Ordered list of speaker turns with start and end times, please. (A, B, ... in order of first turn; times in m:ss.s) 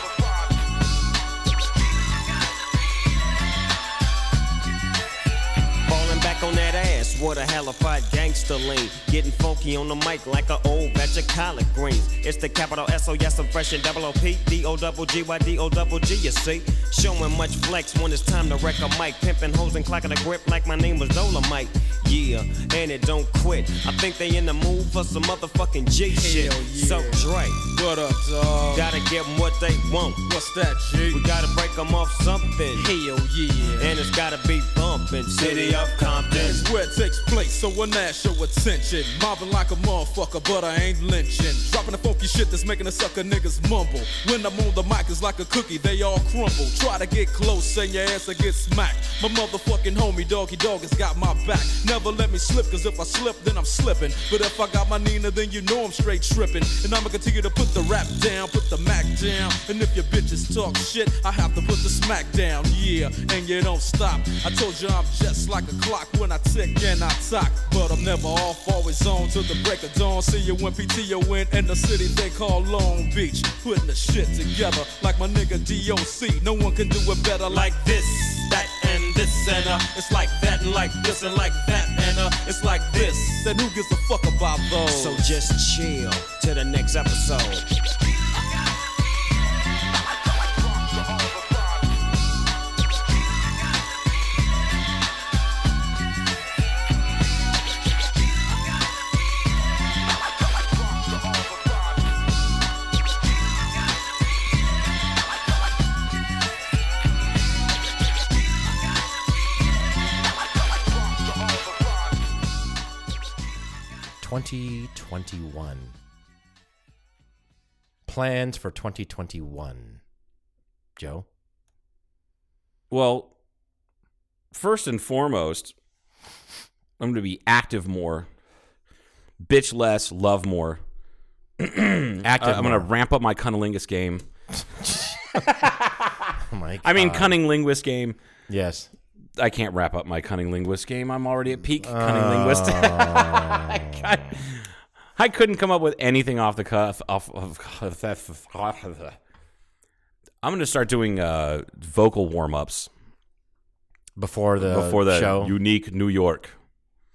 0:05.9-0:27.6 A
0:26.1-0:28.9 B
0:28.7-0:30.2 A
0:30.2-0:31.3 B
0:31.1-0:33.0 A
0:32.7-0:34.0 B
0:33.8-0:36.7 A
0:35.3-1:25.3 B
1:18.6-1:19.1 A
1:20.4-1:20.8 A
1:22.6-1:23.4 A
1:24.9-1:27.7 A
1:54.2-1:55.9 C
1:58.1-2:00.0 C
2:01.0-2:01.2 C
2:02.9-2:03.3 D
2:04.5-2:05.7 D
2:07.0-2:08.3 D
2:09.4-2:10.8 D
2:11.6-2:14.2 D
2:12.2-2:12.9 C
2:14.8-2:15.6 C
2:15.4-2:15.9 D
2:16.4-2:17.4 C
2:16.8-2:18.2 D
2:18.5-2:18.9 C
2:19.4-2:29.2 D
2:21.8-2:24.2 C
2:30.4-2:32.9 D
2:34.2-2:35.5 C
2:34.6-2:36.6 D